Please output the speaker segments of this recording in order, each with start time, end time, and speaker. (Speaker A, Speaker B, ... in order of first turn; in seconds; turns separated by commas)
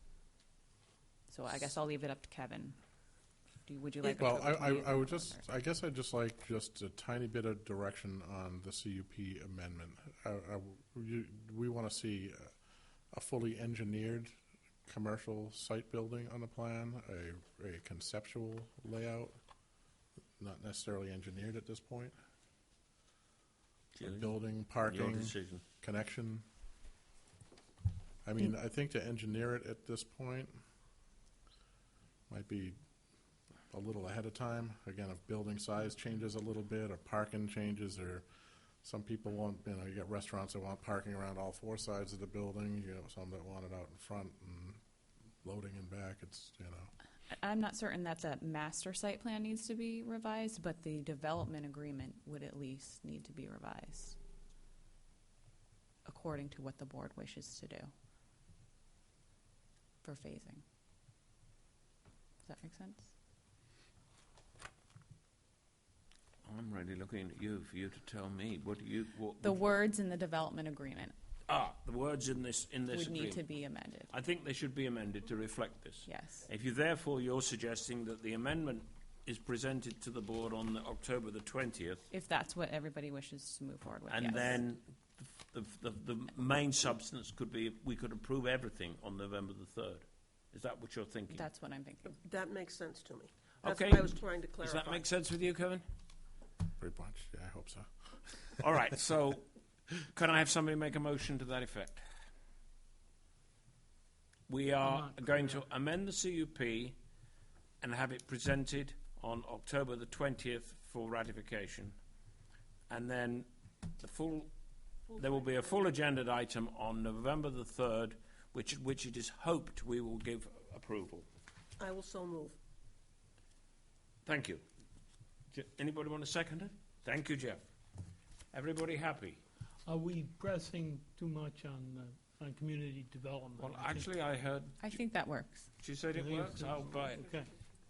Speaker A: 1.3-2.8, Speaker A: 3.6-5.4, Speaker B: 4.0-12.5, Speaker B: 13.1-14.3, Speaker B: 14.8-19.4, Speaker B: 20.4-22.1, Speaker C: 23.9-25.6, Speaker B: 24.0-26.4, Speaker B: 28.2-30.6, Speaker B: 32.3-32.8, Speaker B: 33.7-38.2, Speaker B: 38.8-44.8, Speaker B: 45.4-46.9, Speaker A: 47.3-54.2, Speaker A: 56.0-57.9, Speaker A: 60.0-60.6, Speaker A: 62.4-63.1, Speaker C: 66.5-69.6, Speaker A: 69.4-71.1, Speaker C: 71.5-73.4, Speaker A: 72.9-74.1, Speaker C: 74.1-82.1, Speaker A: 76.1-76.4, Speaker A: 82.1-84.6, Speaker C: 84.1-91.5, Speaker A: 91.3-92.2, Speaker D: 92.2-95.1, Speaker C: 93.6-95.8, Speaker B: 96.8-98.6, Speaker C: 98.6-99.5, Speaker C: 100.0-102.0, Speaker C: 104.5-107.0, Speaker E: 104.9-105.6, Speaker C: 107.8-112.0, Speaker C: 112.9-113.5, Speaker C: 114.0-114.5, Speaker C: 115.1-121.2, Speaker D: 121.8-122.5, Speaker C: 124.2-124.6, Speaker C: 125.5-127.6, Speaker C: 128.5-129.4, Speaker E: 129.8-134.1, Speaker C: 133.6-135.0, Speaker A: 134.8-135.8, Speaker C: 135.8-137.4, Speaker E: 136.1-137.5